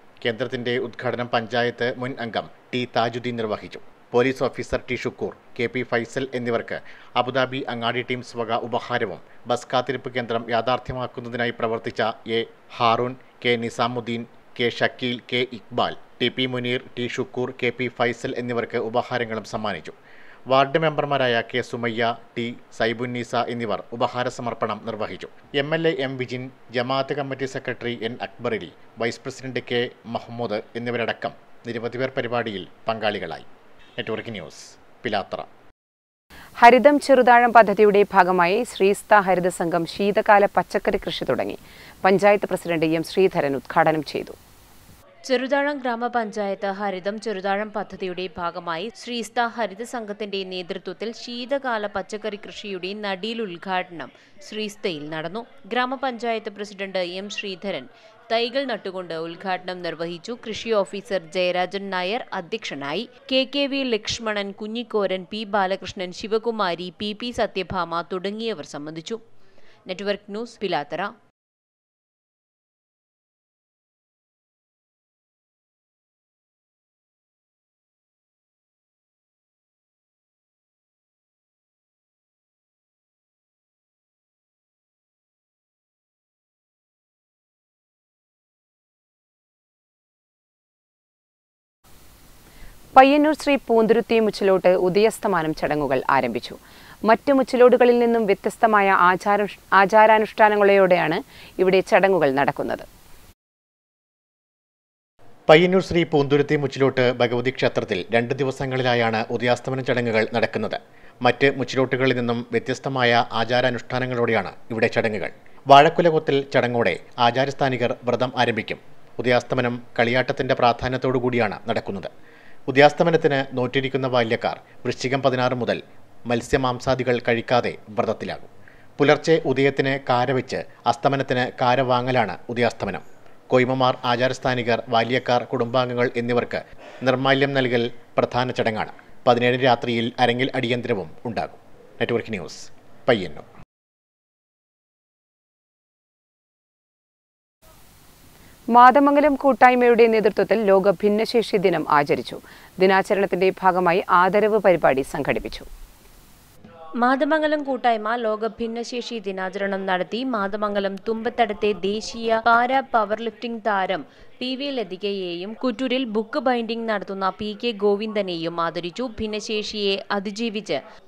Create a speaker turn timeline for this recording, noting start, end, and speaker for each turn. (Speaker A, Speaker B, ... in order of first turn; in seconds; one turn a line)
Speaker A: 0.2-20.0
Speaker A: 20.5-33.5
Speaker A: 34.0-35.5
Speaker B: 36.6-44.4
Speaker C: 45.3-69.2
Speaker C: 69.9-71.1
Speaker B: 93.0-102.9
Speaker A: 105.5-122.1
Speaker A: 122.7-143.5
Speaker B: 148.8-155.7
Speaker C: 157.0-170.8